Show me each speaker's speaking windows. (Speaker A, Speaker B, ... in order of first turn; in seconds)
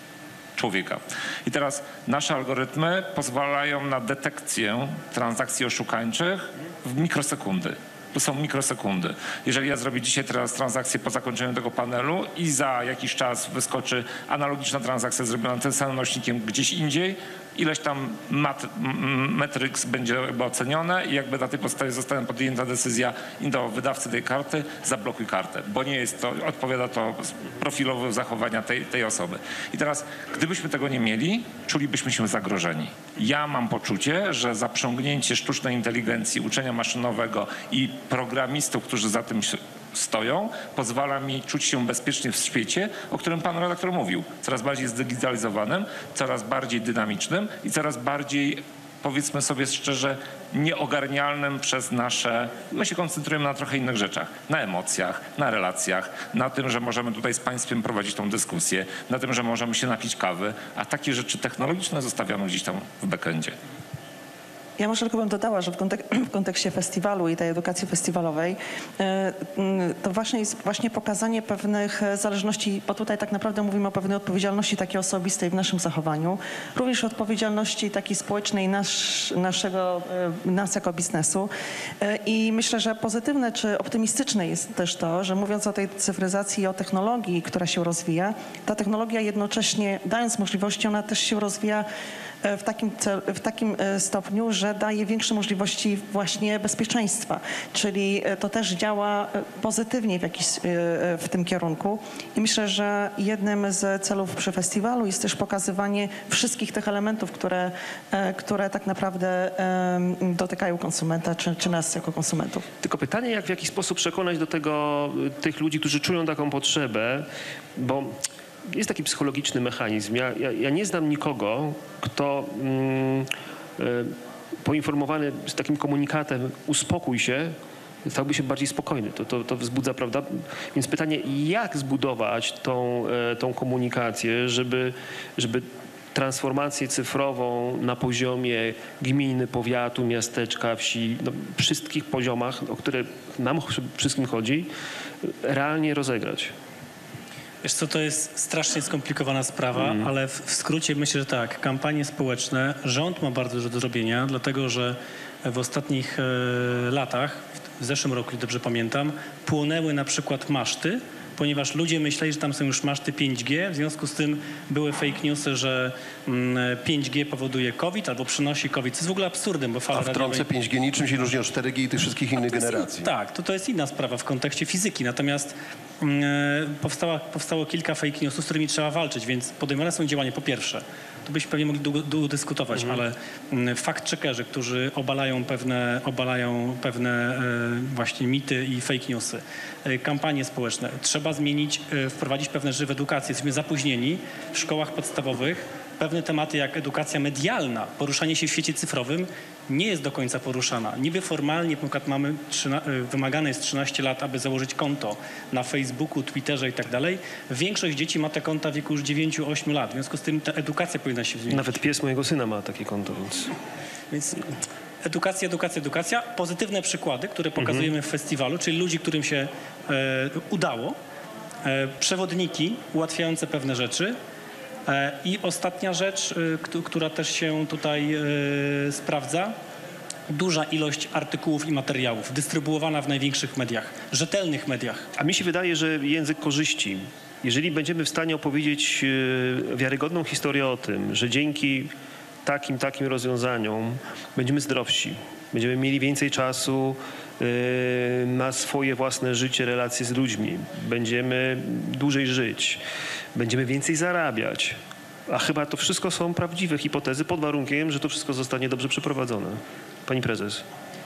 Speaker A: 0.6-63.6
Speaker B: 64.8-81.5, 82.0-91.9, 92.4-112.7
Speaker C: 112.8-144.7, 145.2-146.5, 149.8-150.1, 211.5-213.5, 217.6-217.9, 235.2-241.9, 242.4-252.8, 253.3-254.8, 255.3-260.6
Speaker D: 147.6-170.5, 172.4-211.7, 214.1-214.5, 215.0-221.0, 221.6-224.2, 224.9-229.6, 230.3-235.1
Speaker E: 169.9-173.1